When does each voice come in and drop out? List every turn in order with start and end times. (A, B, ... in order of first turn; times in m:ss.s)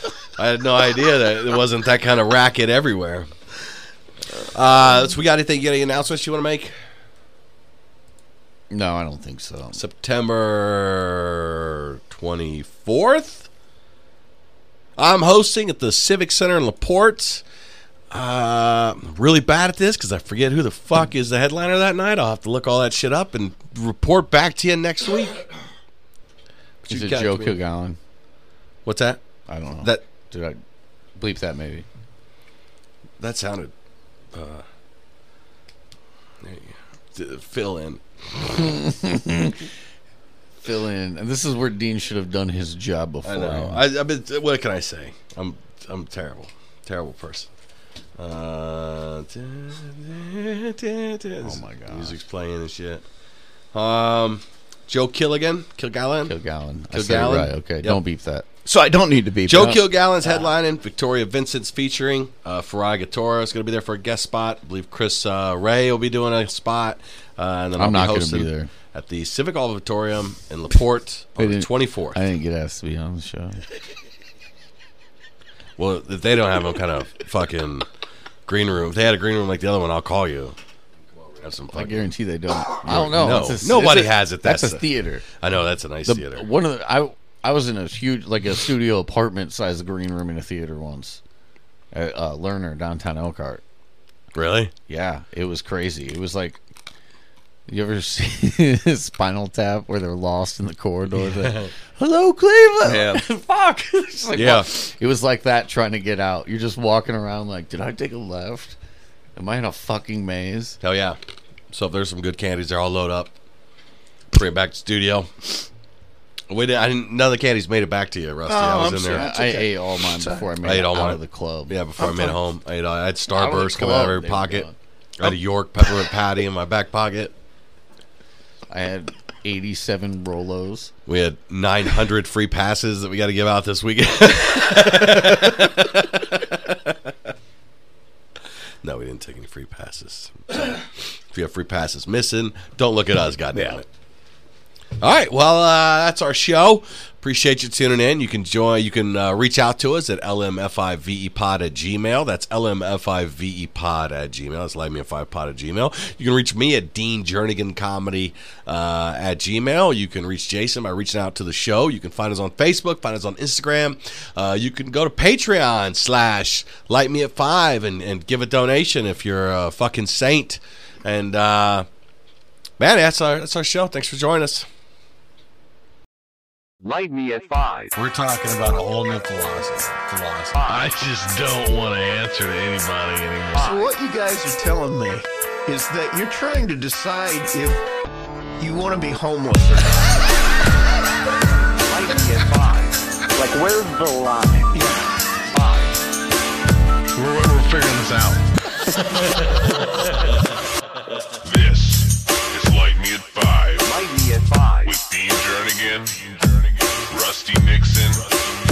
0:00.4-0:03.3 A
0:04.4-0:06.7 A
0:08.7-0:09.8 B
0:09.7-0:13.5 A
0:15.0-0:17.4 A
0:18.1-0:25.4 A
0:26.8-0:27.6 A
0:26.9-0:28.0 B
0:28.8-0:29.2 A
0:29.5-0:30.6 B
0:31.2-0:31.8 B
0:33.2-0:33.7 A
0:34.3-0:34.6 A
0:36.4-0:38.0 A
0:38.4-0:39.7 B
0:40.6-0:43.8 B
0:43.2-0:47.5 A
0:48.2-0:53.0 A
0:51.4-0:52.2 B
0:53.7-0:56.4 A
0:56.2-0:58.4 B
0:56.9-0:58.0 A
0:58.6-0:59.8 C
0:59.5-1:12.2 A
1:07.8-1:08.7 B
1:11.4-1:13.6 B
1:15.8-1:17.8 A
1:18.5-1:20.5 A
1:21.3-1:22.1 A
1:21.7-1:25.2 B
1:22.8-1:24.8 A
1:25.4-1:26.4 A
1:26.0-1:31.2 B
1:31.9-1:33.6 B
1:34.3-1:34.7 A
1:34.9-1:36.6 B
1:37.7-1:48.8 B
1:41.3-1:41.7 A
1:42.8-1:43.2 C
1:44.3-1:44.7 A
1:49.4-1:50.8 B
1:50.8-1:51.2 A
1:51.7-1:53.3 A
1:54.3-1:55.6 A
1:56.5-1:59.3 A
1:58.5-2:00.4 C
1:59.1-2:01.8 B
2:00.6-2:07.3 A
2:02.0-2:02.4 C
2:03.3-2:04.7 B
2:08.7-2:10.9 B
2:11.0-2:17.0 A
2:18.8-2:23.8 A
2:25.0-2:51.8 A
2:52.8-2:54.6 A
2:56.8-2:57.9 D
2:57.9-3:03.7 A
3:00.5-3:01.0 D
3:03.6-3:03.9 D
3:03.6-3:07.8 C
3:08.6-3:10.2 C
3:11.8-3:14.9 D
3:14.7-3:15.1 C
3:15.4-3:16.0 D
3:17.1-3:18.5 E
3:21.4-3:23.8 E
3:23.8-3:25.0 D
3:24.9-3:26.4 E
3:27.1-3:28.3 E